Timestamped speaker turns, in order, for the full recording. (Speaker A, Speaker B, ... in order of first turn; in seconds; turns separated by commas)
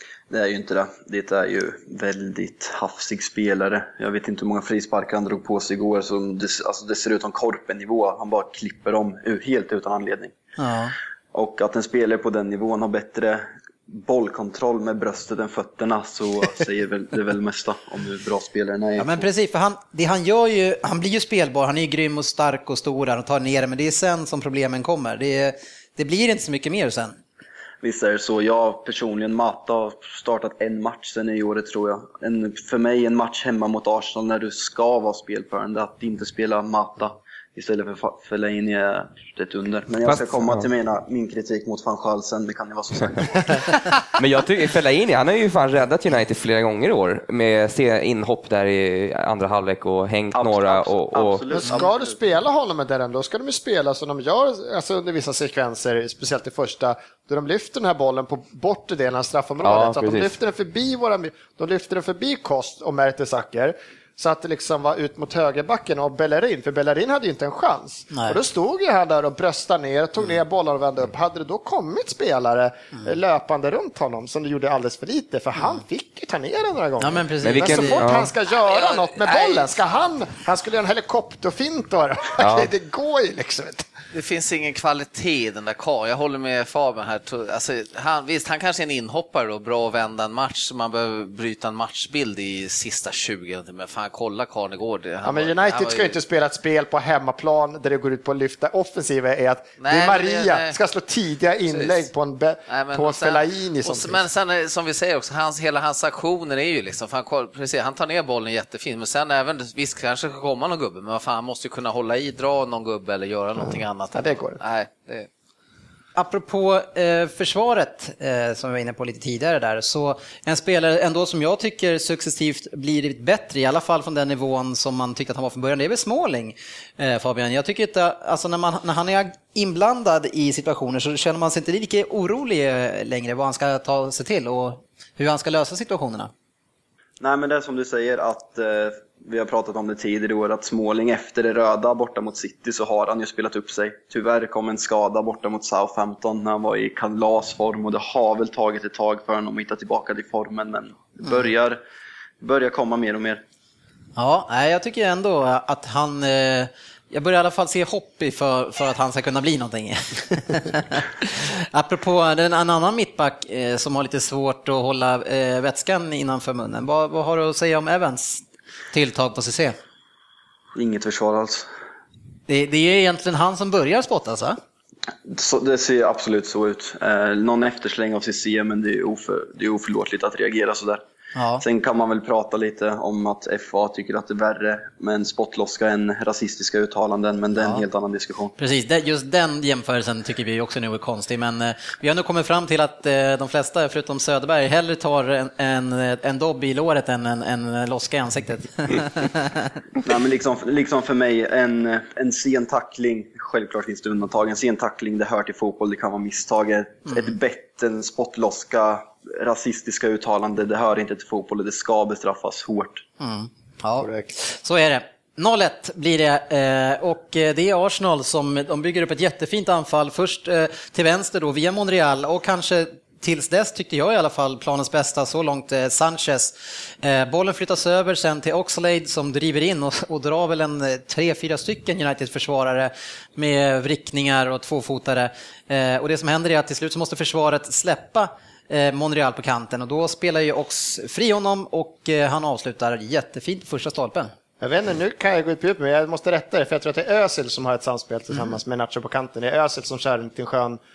Speaker A: 0.3-10.3, Speaker B: 10.6-10.9, Speaker A: 11.3-19.3, Speaker B: 19.0-27.2, Speaker A: 27.8-43.8, Speaker C: 40.0-40.6, Speaker C: 44.2-51.5, Speaker A: 50.3-52.2, Speaker D: 51.6-83.9, Speaker C: 59.6-60.3, Speaker B: 68.1-68.4, Speaker B: 77.0-78.1, Speaker C: 77.4-78.3, Speaker E: 78.7-79.7, Speaker C: 82.4-82.7, Speaker E: 84.1-96.2, Speaker D: 95.2-104.2, Speaker E: 99.8-100.8, Speaker E: 101.7-102.0, Speaker E: 102.7-115.3, Speaker D: 113.6-114.6, Speaker B: 116.2-136.3, Speaker A: 137.2-151.8, Speaker A: 152.4-153.4, Speaker B: 154.2-169.8, Speaker A: 170.8-171.7, Speaker B: 172.5-174.6, Speaker A: 175.2-181.0, Speaker B: 181.4-181.6, Speaker A: 181.6-188.5, Speaker B: 187.6-187.8, Speaker B: 188.6-199.7, Speaker A: 200.0-213.1, Speaker B: 213.2-244.3, Speaker D: 214.0-214.3, Speaker D: 244.6-250.8